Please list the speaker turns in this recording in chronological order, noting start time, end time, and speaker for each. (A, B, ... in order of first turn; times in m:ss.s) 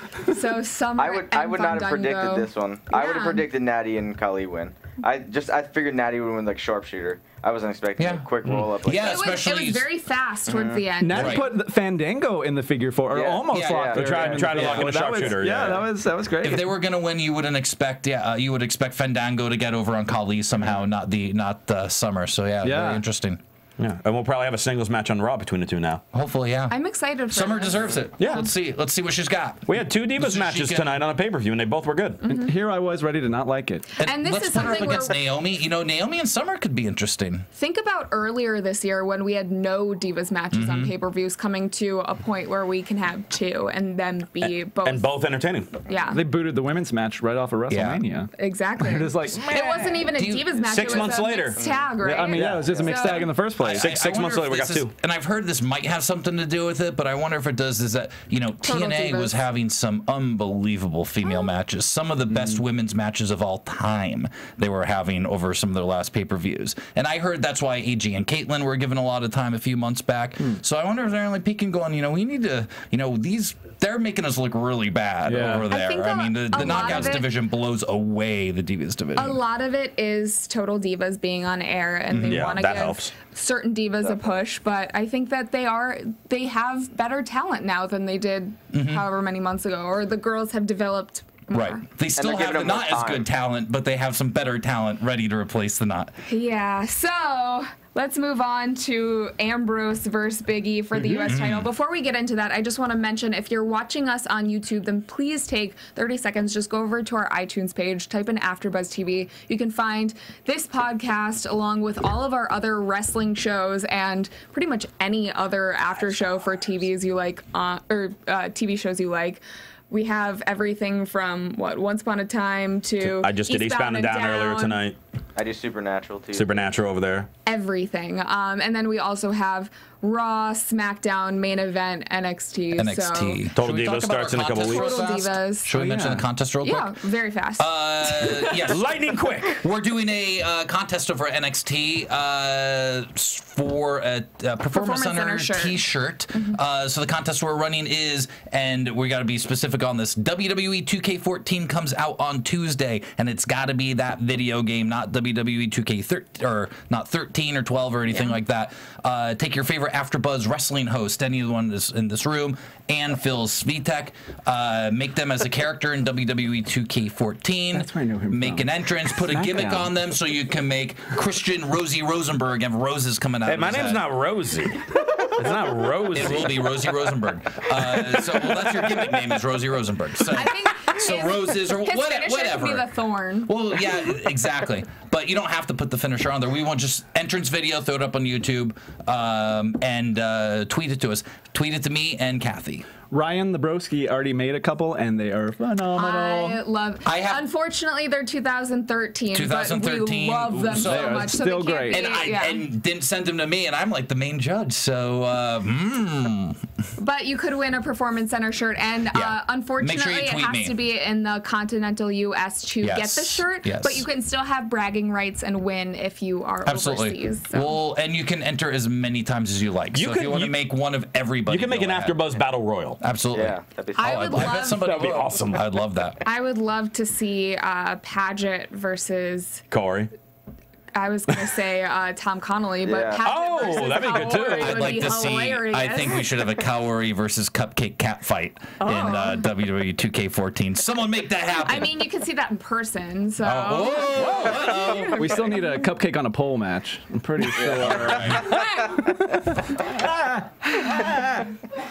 0:00.3-0:03.4 A
0:01.0-0:09.2 B
0:08.0-0:09.9 C
0:08.9-0:11.5 A
0:10.5-0:10.9 B
0:11.0-0:16.6 D
0:11.1-0:11.4 C
0:13.1-0:14.8 B
0:13.5-0:13.9 C
0:13.9-0:15.8 E
0:16.4-0:23.4 C
0:22.6-0:23.0 D
0:23.8-0:26.0 E
0:26.1-0:26.8 C
0:26.7-0:28.0 A
0:27.3-0:31.0 C
0:28.2-0:28.4 E
0:29.7-0:32.2 E
0:32.2-0:34.0 D
0:34.0-0:37.4 C
0:34.0-0:35.2 A
0:37.5-0:45.1 A
0:40.5-0:40.9 C
0:44.8-0:45.7 E
0:45.8-0:46.2 A
0:46.1-0:50.1 D
0:47.7-0:48.0 C
0:48.4-0:53.3 A
0:50.2-0:50.4 C
0:50.7-0:51.6 E
0:51.6-0:51.9 B
0:52.0-0:53.9 D
0:52.3-0:54.9 E
0:53.6-1:19.4 C
0:58.6-0:59.4 A
1:15.2-1:15.7 D
1:15.7-1:17.3 A
1:19.2-1:31.8 A
1:22.1-1:22.6 C
1:22.2-1:23.1 E
1:28.7-1:29.0 C
1:31.5-1:36.1 C
1:32.2-1:33.2 B
1:36.3-2:04.8 A
1:41.2-1:41.7 C
2:03.0-2:05.0 E
2:05.4-2:06.6 B
2:06.3-2:07.3 E
2:07.4-2:13.4 A
2:12.8-2:17.0 C
2:13.6-2:15.0 E
2:14.6-2:15.7 A
2:15.7-2:16.2 D
2:16.6-2:18.7 A
2:17.6-2:18.9 C
2:18.7-2:19.6 E
2:19.5-2:54.0 C
2:24.7-2:25.8 A
2:38.1-2:38.4 A
2:47.7-2:49.9 D
2:53.4-2:56.7 E
2:56.1-3:02.9 C
2:57.8-2:58.9 E
3:00.3-3:03.5 A
3:03.4-3:12.9 C
3:13.1-3:16.6 D
3:15.9-3:22.6 A
3:17.0-3:17.4 C
3:19.3-3:21.3 C
3:20.7-3:22.1 D
3:21.9-3:26.6 C
3:27.0-3:37.8 A
3:29.1-3:30.7 C
3:32.8-3:34.0 C
3:36.6-3:42.2 C
3:39.9-3:40.6 E
3:41.5-3:43.0 E
3:43.0-3:46.2 C
3:43.3-3:44.6 B
3:43.9-3:44.8 A
3:44.6-3:45.6 E
3:46.2-3:49.6 A
3:49.7-3:50.1 E
3:50.9-3:56.3 A
3:52.8-3:53.9 B
3:53.2-3:55.0 E
3:54.2-4:02.0 C
3:58.8-3:59.4 A
4:01.6-4:05.8 A
4:03.4-4:05.3 C
4:04.3-4:04.6 E
4:05.1-4:11.5 D
4:07.6-4:08.4 B
4:07.8-4:08.6 C
4:08.4-4:09.0 A